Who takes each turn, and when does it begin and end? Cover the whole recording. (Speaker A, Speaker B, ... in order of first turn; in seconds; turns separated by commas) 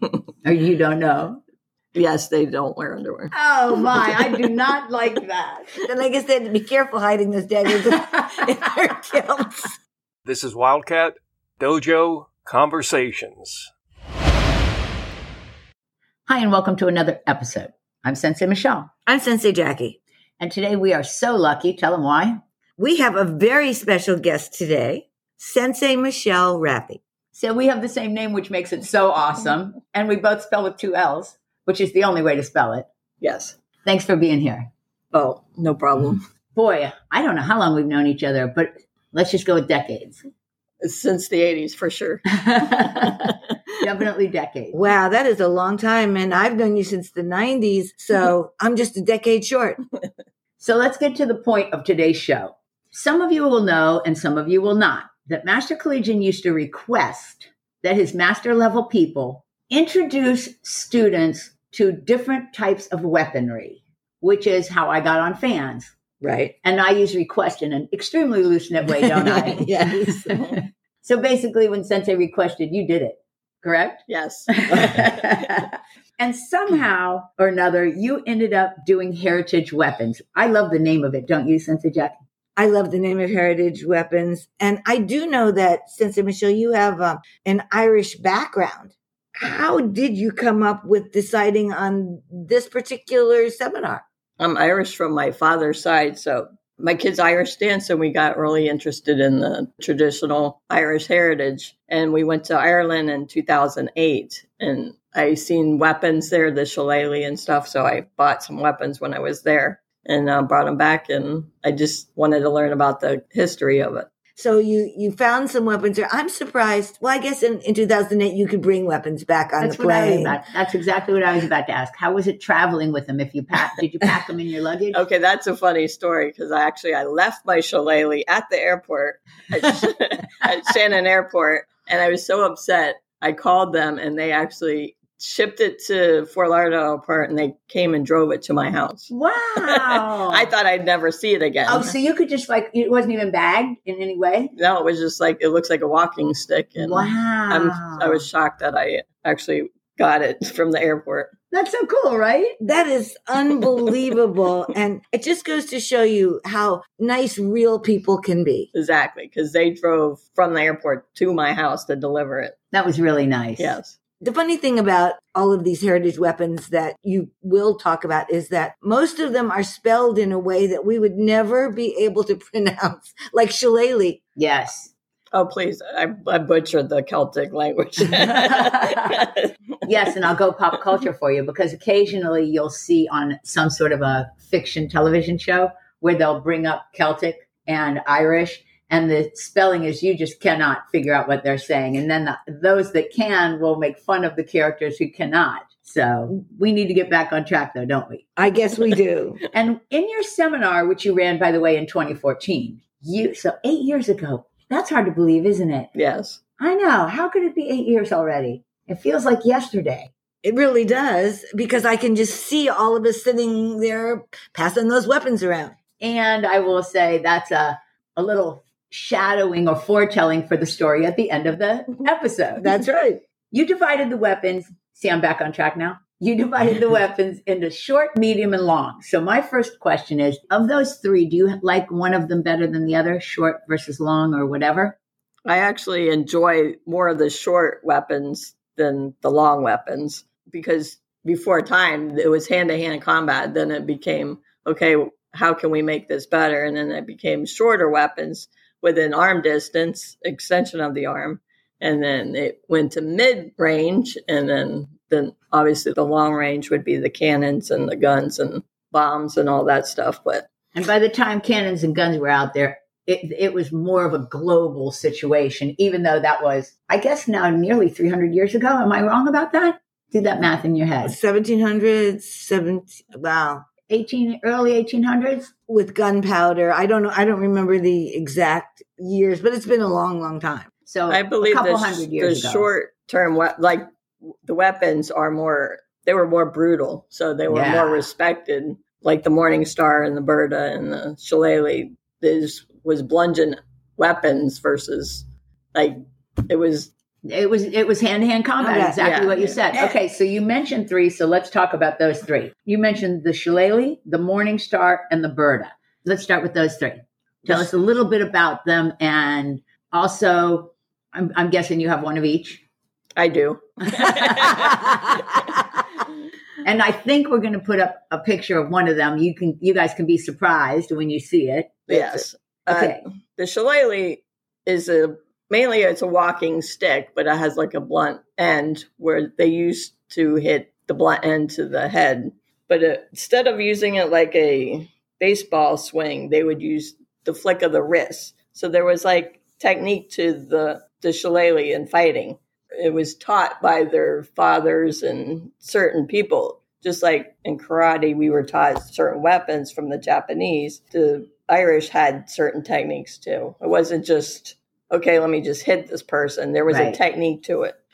Speaker A: 0.5-1.4, Speaker B: 1.9-3.3, Speaker A: 3.3-5.7, Speaker B: 3.9-4.4, Speaker C: 5.9-9.8, Speaker D: 10.3-13.7, Speaker A: 16.3-18.9, Speaker C: 19.1-20.0, Speaker A: 20.4-22.4, Speaker C: 22.8-27.0, Speaker A: 27.3-32.9, Speaker B: 33.2-33.5, Speaker A: 33.9-34.7, Speaker B: 35.1-36.2, Speaker A: 36.5-40.2, Speaker B: 40.8-43.4, Speaker A: 42.3-43.2, Speaker A: 43.8-44.8, Speaker C: 44.7-49.8, Speaker A: 50.6-65.9, Speaker C: 66.2-66.5, Speaker A: 66.6-82.2, Speaker C: 69.1-70.3, Speaker B: 74.1-75.5, Speaker C: 82.6-94.0, Speaker B: 94.4-114.1, Speaker C: 114.4-120.4, Speaker A: 119.6-125.0, Speaker B: 124.9-139.1, Speaker A: 139.1-140.5, Speaker B: 139.6-141.9, Speaker A: 141.7-144.5, Speaker B: 144.6-151.3, Speaker A: 146.8-148.3, Speaker A: 151.5-152.6, Speaker C: 152.6-158.7, Speaker B: 158.7-162.6, Speaker A: 162.7-163.8, Speaker B: 163.6-164.0, Speaker C: 164.2-174.2, Speaker A: 174.4-174.9, Speaker B: 175.3-179.4, Speaker A: 178.6-179.1, Speaker A: 179.8-198.3, Speaker C: 198.4-199.4, Speaker A: 199.5-205.9, Speaker B: 205.9-206.4, Speaker A: 206.6-210.1, Speaker C: 210.4-215.8, Speaker A: 216.0-222.7, Speaker C: 222.6-223.2, Speaker A: 223.5-235.0, Speaker B: 235.5-260.5, Speaker A: 260.8-271.2, Speaker C: 271.1-273.7, Speaker A: 273.9-275.5, Speaker C: 275.7-280.7, Speaker A: 280.9-282.7, Speaker B: 281.1-283.9, Speaker B: 284.4-296.9, Speaker A: 287.5-288.1, Speaker A: 297.3-312.6, Speaker C: 298.6-299.1, Speaker B: 299.0-299.6, Speaker B: 313.2-315.0, Speaker A: 314.0-314.9, Speaker A: 316.6-323.0, Speaker B: 321.9-357.8, Speaker A: 356.7-357.0